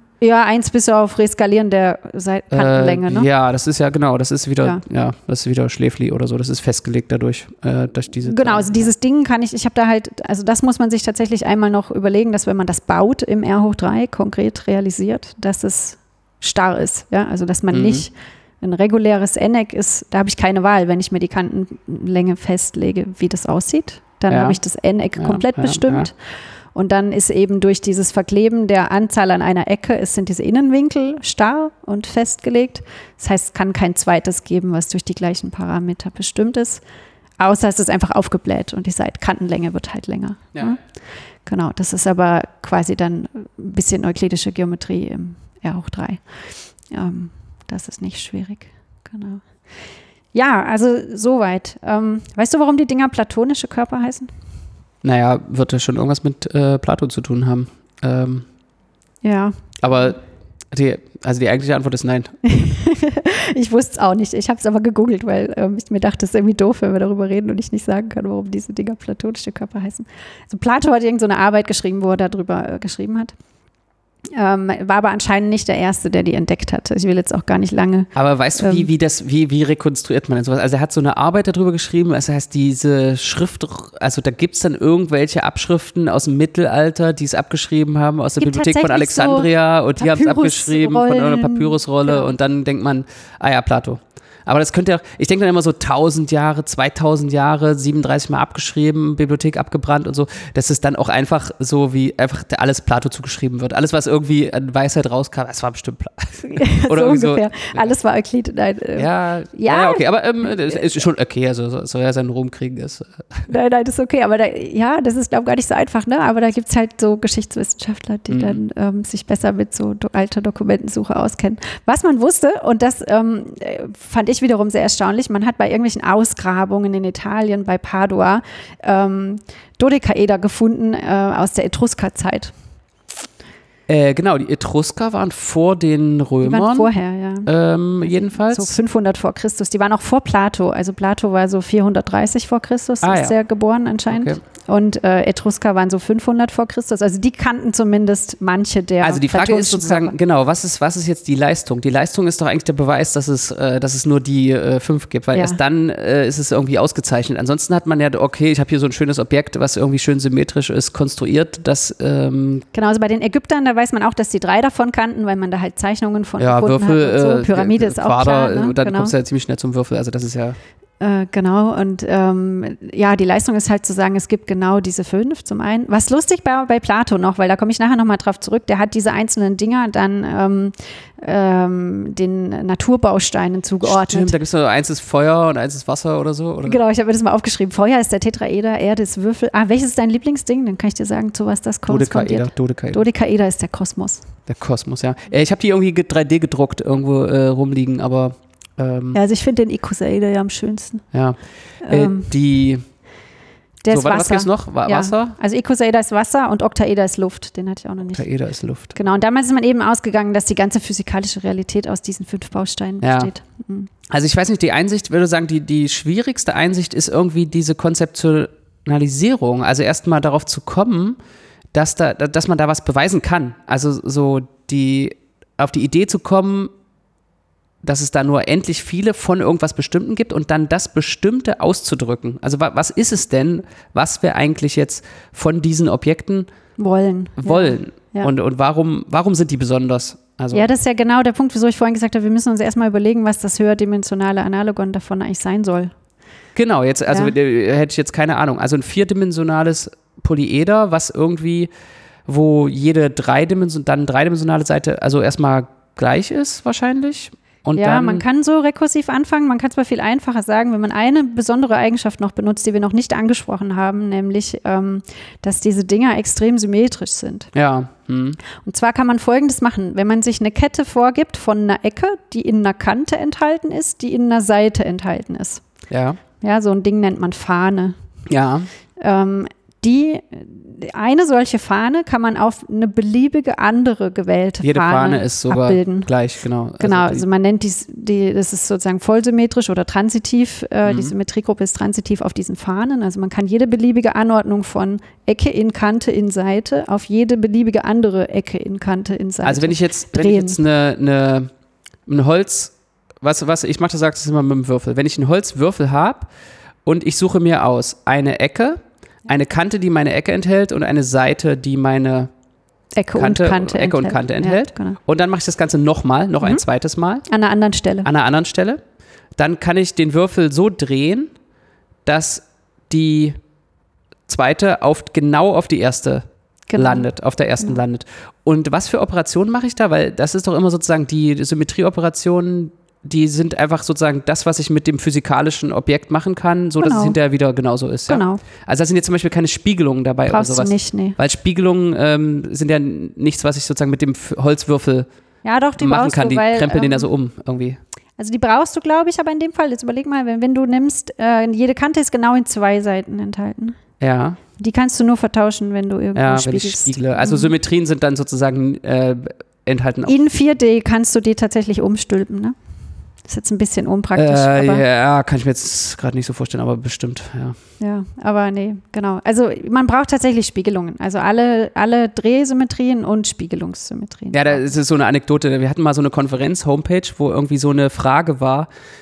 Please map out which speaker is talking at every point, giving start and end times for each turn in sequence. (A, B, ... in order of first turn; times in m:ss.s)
0:00.2-0:03.3 A
0:02.5-0:08.9 B
0:08.2-0:26.1 A
0:17.7-0:18.0 B
0:24.3-0:24.6 B
0:25.2-0:26.1 B
0:26.7-0:36.8 A
0:37.4-0:40.8 A
0:41.4-0:46.2 A
0:46.9-0:49.4 A
0:50.3-0:54.3 A
0:55.0-0:58.4 B
0:59.2-0:59.6 A
0:59.8-1:00.2 B
1:00.7-1:02.3 B
1:02.4-1:13.3 A
1:14.3-1:18.9 A
1:18.1-1:47.9 B
1:28.4-1:32.3 A
1:46.5-1:50.9 A
1:49.0-1:53.5 B
1:53.5-2:12.5 A
1:58.3-1:58.6 B
2:13.9-2:16.9 B
2:16.4-2:17.5 A
2:17.4-2:18.7 B
2:18.0-2:30.2 A
2:23.0-2:23.3 B
2:24.1-2:24.4 B
2:29.0-2:42.6 B
2:35.3-2:35.6 A
2:42.7-2:49.1 A
2:46.4-2:50.6 B
2:51.0-3:04.3 A
3:03.8-3:06.8 B
3:06.6-3:14.2 A
3:11.9-3:13.0 B
3:14.5-3:19.2 B
3:19.1-3:21.0 A
3:21.1-3:22.8 B
3:21.8-3:22.3 A
3:23.8-3:28.2 A
3:23.9-3:25.3 B
3:28.1-3:29.0 B
3:28.9-3:33.9 A
3:33.0-3:33.3 B
3:34.1-3:41.2 B
3:41.7-3:46.7 B
3:47.8-3:56.5 B
3:56.8-3:58.3 A
3:57.4-4:00.7 B
4:00.5-4:05.9 A
4:06.6-4:11.7 B
4:07.1-4:07.3 A
4:12.2-4:18.2 B
4:17.8-4:27.5 A
4:27.5-4:28.4 B
4:28.5-4:35.6 A
4:35.9-4:36.2 B
4:36.4-4:38.0 A
4:38.3-4:38.7 B
4:39.0-4:46.1 A
4:44.6-4:47.2 B
4:46.8-5:00.6 A
4:50.8-4:51.1 B
4:59.4-5:01.5 B
5:02.1-5:06.3 B
5:06.8-5:12.3 B
5:13.0-5:15.0 A
5:13.1-5:17.2 B
5:17.3-5:18.1 A
5:18.0-5:18.8 B
5:19.4-5:21.3 B
5:22.0-5:23.4 B
5:24.3-5:45.1 B
5:26.7-5:27.0 A
5:36.8-5:37.2 A
5:38.1-5:38.4 A
5:40.3-5:41.2 A
5:45.4-5:47.1 A
5:45.8-5:47.8 B
5:48.2-5:53.8 A
5:54.0-5:54.4 B
5:54.6-5:57.5 A
5:56.1-6:00.2 B
6:00.0-6:02.5 A
6:03.3-6:04.8 A
6:04.2-6:07.6 B
6:07.8-6:14.6 A
6:14.3-6:18.7 B